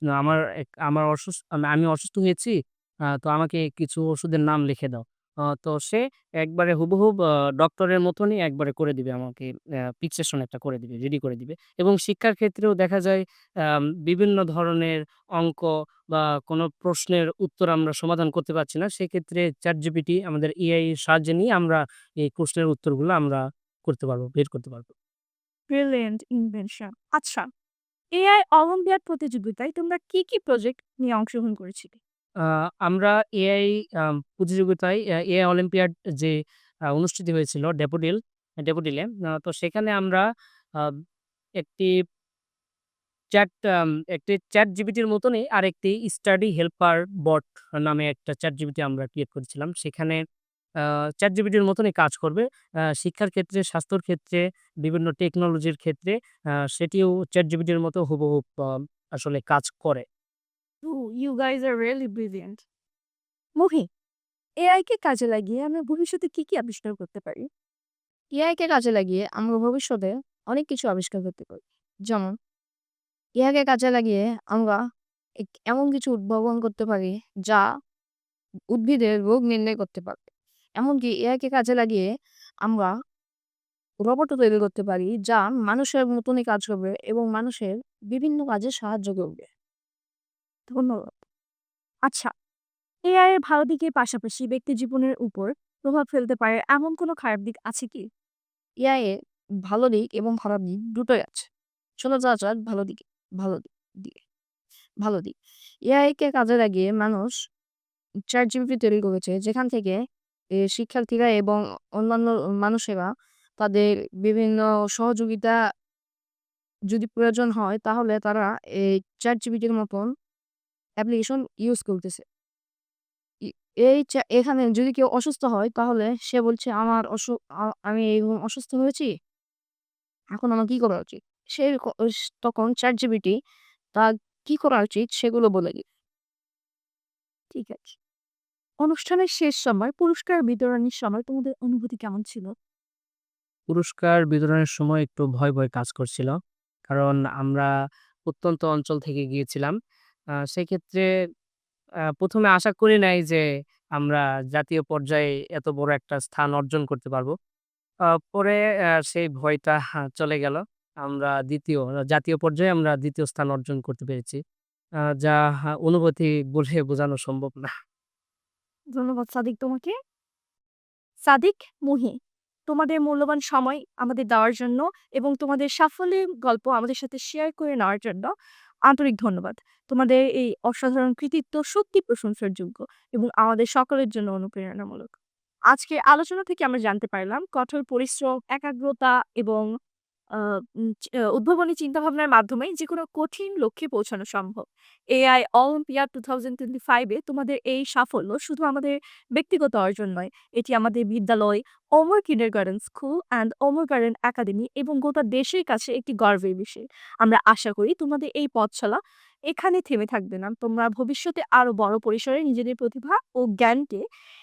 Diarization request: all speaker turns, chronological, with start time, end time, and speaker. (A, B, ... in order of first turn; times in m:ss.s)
0:00.2-0:02.5 A
0:03.2-0:05.0 A
0:05.6-0:09.4 A
0:10.0-0:24.9 A
0:25.7-0:27.4 B
0:28.2-0:32.0 B
0:32.5-0:36.3 A
0:37.0-0:40.2 A
0:41.6-0:41.9 A
0:43.3-0:50.2 A
0:50.8-0:52.4 A
0:53.0-0:56.1 A
0:56.7-1:00.0 A
1:00.8-1:02.6 B
1:03.6-1:03.9 B
1:04.6-1:07.4 B
1:08.4-1:12.3 C
1:13.4-1:14.8 C
1:15.6-1:17.6 C
1:18.7-1:20.3 C
1:20.8-1:22.0 C
1:22.6-1:22.9 C
1:24.0-1:29.5 C
1:30.7-1:31.2 B
1:33.1-1:38.0 B
1:38.8-1:39.1 C
1:39.7-1:41.5 C
1:42.0-1:44.2 C
1:45.0-1:45.3 C
1:45.9-1:47.3 C
1:48.3-1:50.0 C
1:50.6-1:53.1 C
1:53.6-1:55.5 C
1:56.9-2:00.1 C
2:01.0-2:02.2 C
2:03.8-2:07.3 C
2:07.9-2:09.1 C
2:10.4-2:13.3 C
2:14.0-2:15.8 C
2:17.5-2:18.0 B
2:18.8-2:22.5 B
2:23.7-2:26.3 A
2:26.9-2:27.7 A
2:28.3-2:29.7 A
2:30.5-2:31.1 A
2:32.2-2:33.4 A
2:34.0-2:37.3 A
2:38.3-2:44.4 A
2:45.2-2:47.7 A
2:48.9-2:49.9 B
2:51.3-2:52.2 B
2:52.7-2:58.3 B
2:58.9-3:05.1 B
3:05.7-3:09.6 B
3:11.3-3:29.0 B
3:29.5-3:34.0 B